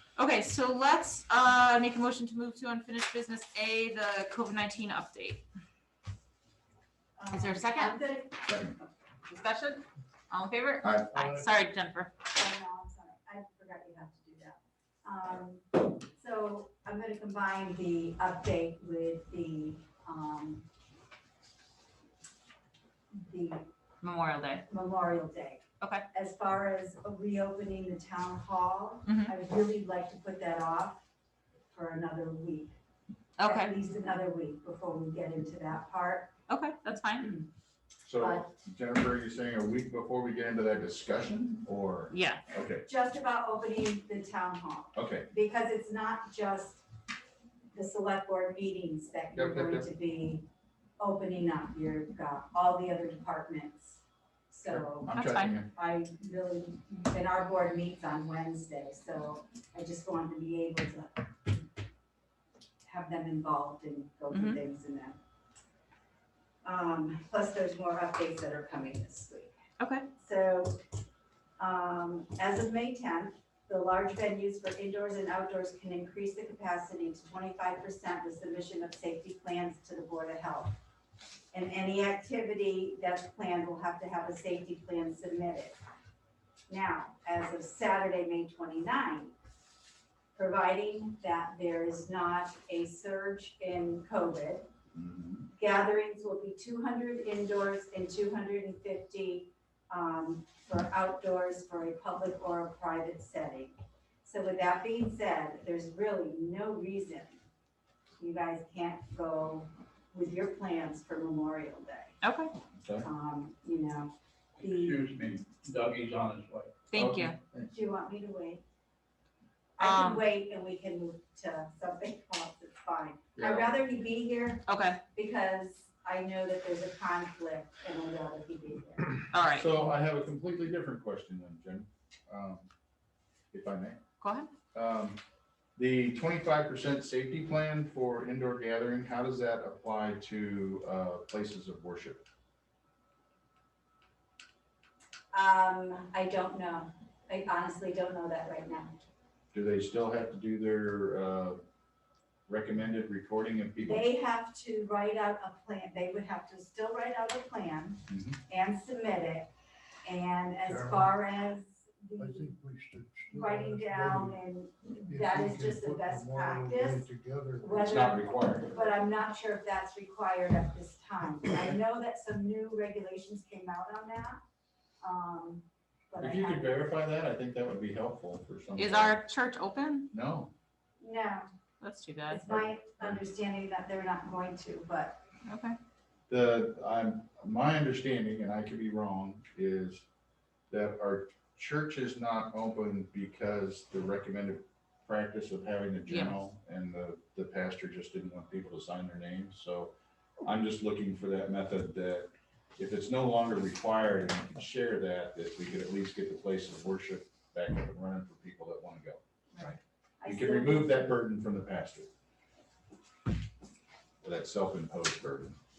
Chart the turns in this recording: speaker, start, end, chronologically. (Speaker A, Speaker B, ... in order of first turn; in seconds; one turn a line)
Speaker A: 0.2-5.4
Speaker B: 7.2-8.9
Speaker A: 7.3-8.0
Speaker C: 8.5-8.8
Speaker A: 9.3-12.1
Speaker C: 10.8-11.3
Speaker B: 12.3-20.7
Speaker B: 23.1-23.7
Speaker A: 24.0-24.6
Speaker B: 24.7-31.0
Speaker A: 29.1-29.3
Speaker B: 31.7-32.8
Speaker A: 33.4-33.7
Speaker B: 33.4-36.3
Speaker A: 36.5-37.3
Speaker B: 37.2-37.5
Speaker C: 38.1-42.9
Speaker B: 38.2-38.5
Speaker A: 42.1-42.4
Speaker B: 42.9-46.8
Speaker C: 45.0-45.3
Speaker B: 47.7-50.5
Speaker C: 49.3-49.9
Speaker B: 51.0-61.5
Speaker C: 54.7-55.7
Speaker A: 55.1-55.5
Speaker B: 62.8-65.2
Speaker A: 64.3-64.6
Speaker B: 66.6-69.5
Speaker A: 69.8-70.1
Speaker B: 70.1-70.8
Speaker B: 71.6-80.8
Speaker B: 81.5-85.8
Speaker B: 86.7-89.3
Speaker B: 90.4-94.7
Speaker C: 94.9-95.5
Speaker B: 95.5-107.4
Speaker B: 108.2-112.2
Speaker A: 112.2-112.5
Speaker C: 112.8-113.1
Speaker B: 113.0-115.0
Speaker D: 114.8-116.8
Speaker A: 116.9-117.4
Speaker C: 116.9-117.7
Speaker B: 117.7-118.6
Speaker B: 119.8-129.2
Speaker A: 119.8-120.2
Speaker C: 123.4-123.8
Speaker A: 124.7-125.0
Speaker A: 129.3-129.7
Speaker C: 129.5-132.7
Speaker C: 133.5-134.0
Speaker A: 134.2-134.5
Speaker C: 134.7-135.2
Speaker C: 135.8-142.2
Speaker B: 145.3-149.0
Speaker C: 149.5-151.6
Speaker C: 152.5-154.1
Speaker B: 153.8-159.5
Speaker C: 158.1-158.4
Speaker B: 160.0-162.6
Speaker E: 162.2-164.3
Speaker B: 163.3-167.1
Speaker E: 165.1-166.0
Speaker B: 167.6-174.4
Speaker C: 167.7-168.8
Speaker B: 175.0-176.7
Speaker C: 176.2-179.2
Speaker A: 178.8-180.1
Speaker C: 180.1-180.5
Speaker B: 181.0-181.5
Speaker A: 181.8-182.4
Speaker B: 182.3-185.2
Speaker C: 182.4-183.2
Speaker A: 185.5-185.8
Speaker C: 186.3-190.1
Speaker C: 190.7-212.1
Speaker A: 196.1-196.4
Speaker B: 209.5-211.1
Speaker C: 214.2-215.6